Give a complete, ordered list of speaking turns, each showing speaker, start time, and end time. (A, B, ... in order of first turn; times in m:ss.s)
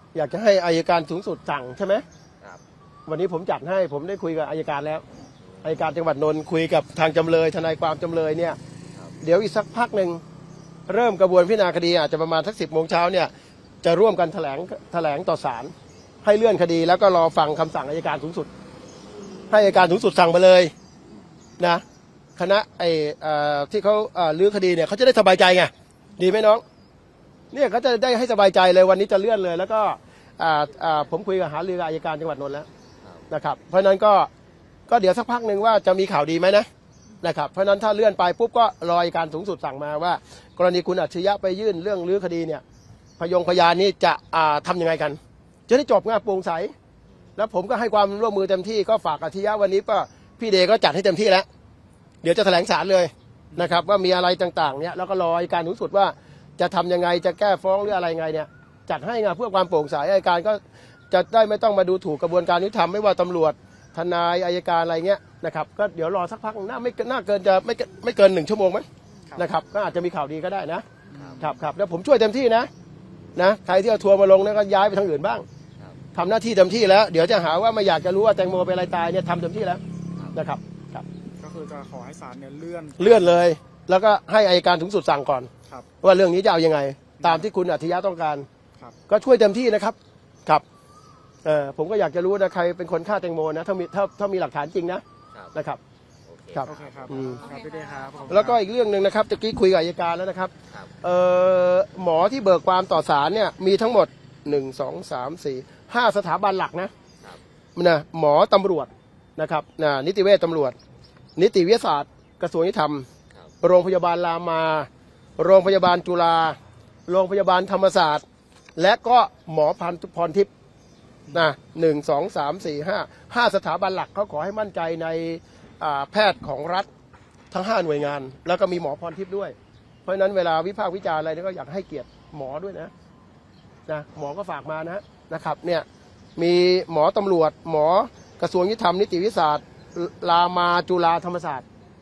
0:00.1-0:02.0 A
0:03.1-0:05.0 A
0:05.5-0:05.9 B
0:05.6-0:08.6 A
0:09.2-0:10.2 A
0:10.9-0:13.3 A
0:13.8-0:15.7 A
0:16.2-0:18.5 A
0:19.5-0:20.7 A
0:22.4-0:26.6 A
0:27.5-0:32.7 A
0:33.0-0:33.3 B
0:33.3-0:34.3 A
0:34.9-0:36.7 A
0:37.2-0:42.6 A
0:43.2-0:46.7 A
0:47.4-0:51.4 A
0:52.2-1:10.9 A
1:11.1-1:11.5 C
1:11.1-1:11.5 B
1:11.4-1:12.7 A
1:13.4-1:15.4 A
1:16.1-1:19.8 A
1:20.1-1:20.4 B
1:20.3-1:21.0 A
1:21.4-1:23.3 C
1:23.0-1:25.5 A
1:26.0-1:28.5 A
1:27.2-1:27.4 C
1:29.1-1:30.6 A
1:31.4-1:35.8 A
1:35.3-1:35.6 B
1:36.2-1:37.4 B
1:36.5-1:37.4 A
1:36.6-1:38.6 C
1:38.3-1:46.9 A
1:47.8-1:50.8 A
1:51.4-1:53.1 A
1:53.6-1:56.6 A
1:57.1-1:58.2 A
1:58.8-2:00.5 A
2:01.3-2:06.9 A
2:07.5-2:12.9 A
2:13.9-2:15.8 A
2:16.4-2:21.6 A